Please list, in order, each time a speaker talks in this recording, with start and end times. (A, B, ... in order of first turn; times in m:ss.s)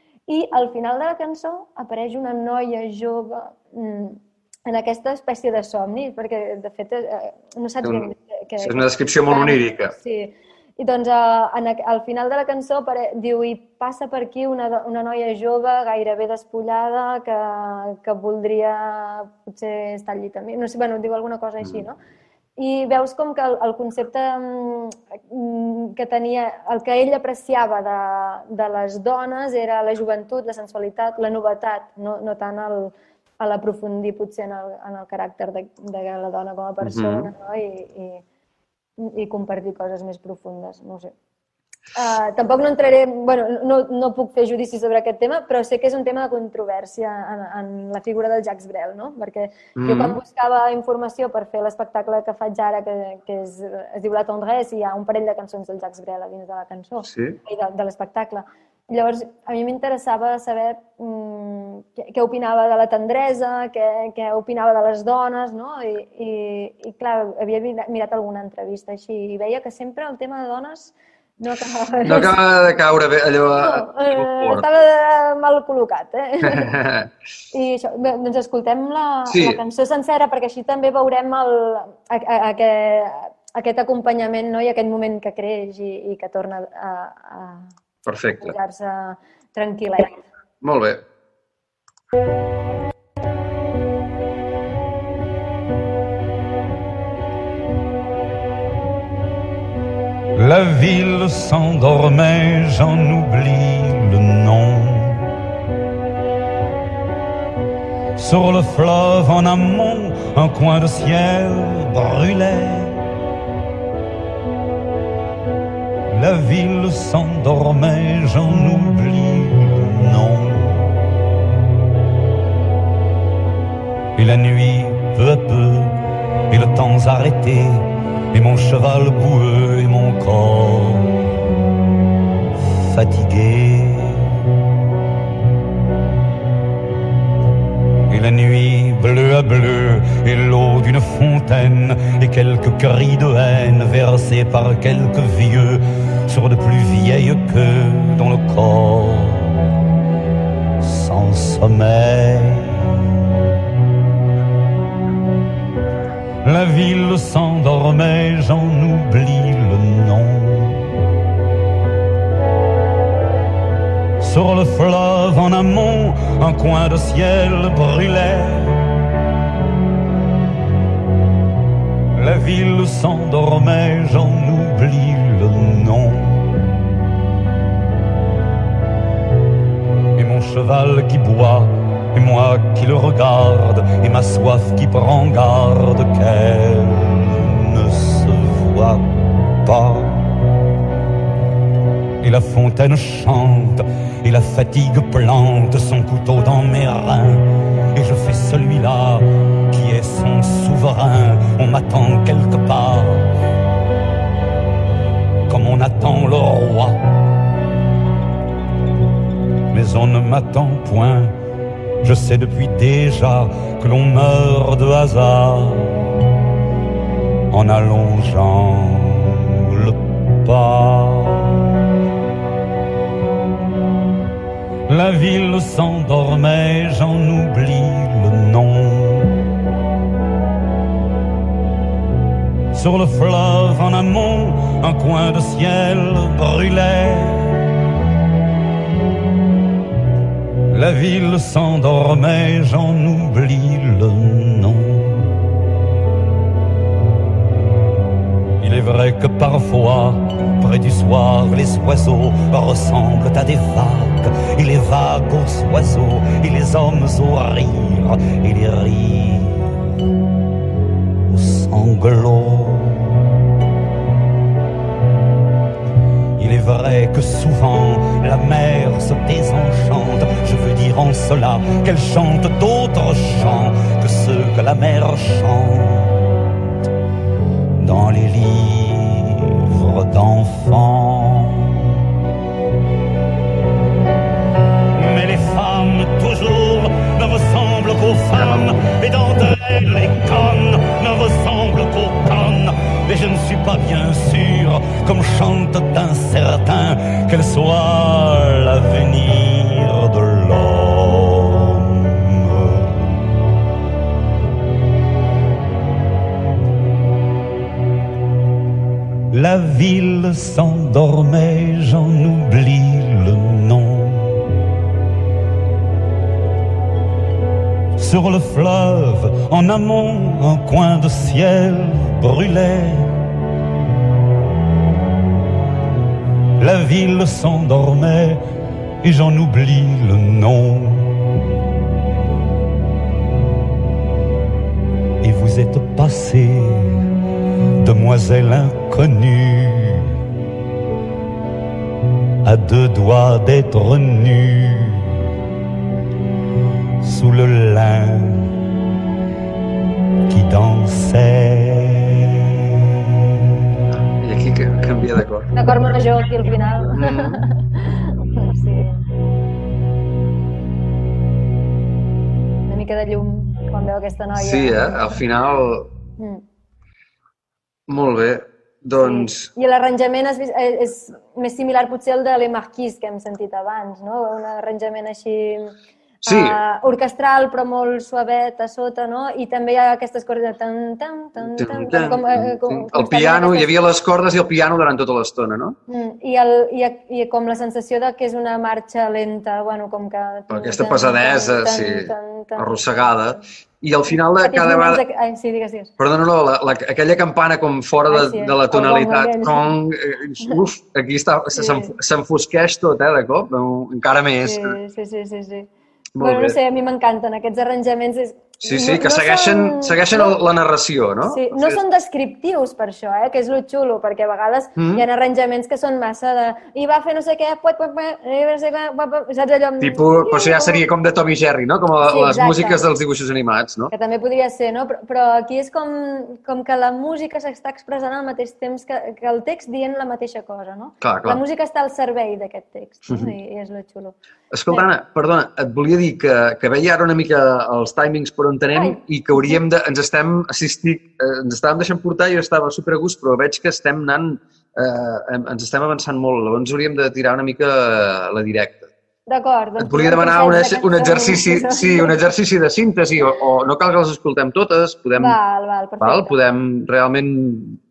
0:00.3-0:22.0 A
0:07.8-0:08.1 B
0:08.6-0:09.9 B
0:22.6-0:38.2 A
0:36.8-0:37.3 B
0:39.0-0:41.1 A
0:41.9-1:12.4 A
0:49.8-0:50.2 B
0:57.0-0:57.4 B
1:12.0-1:14.6 B
1:13.5-1:16.7 A
1:16.4-1:17.1 B
1:17.5-1:27.7 A
1:19.3-1:19.6 B
1:28.0-1:28.5 B
1:28.4-1:30.2 A
1:30.6-1:31.0 B
1:40.4-1:45.3 C
1:48.2-1:53.1 C
1:56.1-2:00.9 C
2:04.2-2:06.0 C
2:06.5-2:11.2 C
2:12.7-2:14.5 C
2:18.1-2:29.6 C
2:30.8-2:33.1 C
2:36.4-2:40.9 C
2:44.2-2:48.9 C
2:52.2-2:56.5 C
3:00.1-3:10.3 C
3:12.2-3:23.3 C
3:25.5-3:27.0 C
3:29.7-3:31.3 C
3:32.0-3:36.0 C
3:37.5-3:41.6 C
3:44.9-3:49.4 C
3:52.7-3:57.7 C
4:00.7-4:05.3 C
4:08.6-4:19.9 C
4:21.3-4:23.2 C
4:26.4-4:36.4 C
4:37.8-4:42.0 C
4:44.9-5:03.1 C
4:48.4-4:48.8 B
5:09.3-5:14.5 C
5:18.0-5:23.2 C
5:26.6-5:28.4 C
5:29.0-5:31.2 C
5:35.2-5:37.1 C
5:37.8-5:40.2 C
5:42.4-5:45.2 C
5:47.0-5:48.5 C
5:50.3-5:53.0 C
5:54.2-5:56.0 B
5:55.5-5:59.0 A
5:56.8-5:57.4 B
6:02.6-6:05.2 A
6:04.3-6:05.9 B
6:06.2-6:06.4 A
6:07.9-6:09.5 B
6:09.0-6:15.7 A
6:16.2-6:16.6 B
6:16.2-6:23.7 A
6:21.4-6:25.8 B
6:25.9-6:33.5 A
6:30.5-6:35.0 B
6:34.1-6:35.9 A
6:36.0-6:44.8 B
6:38.1-6:39.7 A
6:41.5-6:41.9 A
6:44.4-6:50.4 A
6:46.1-6:46.6 B
6:48.6-6:51.8 B
6:51.3-7:00.8 A
6:54.8-6:55.0 B
6:59.8-7:03.9 B
7:02.0-7:02.8 A
7:03.9-7:14.2 A
7:11.0-7:11.4 B
7:13.0-7:13.3 B
7:14.5-7:28.9 B
7:18.7-7:19.6 A
7:29.3-7:32.2 A
7:29.8-7:35.4 B
7:35.2-7:36.4 A
7:36.0-7:37.8 B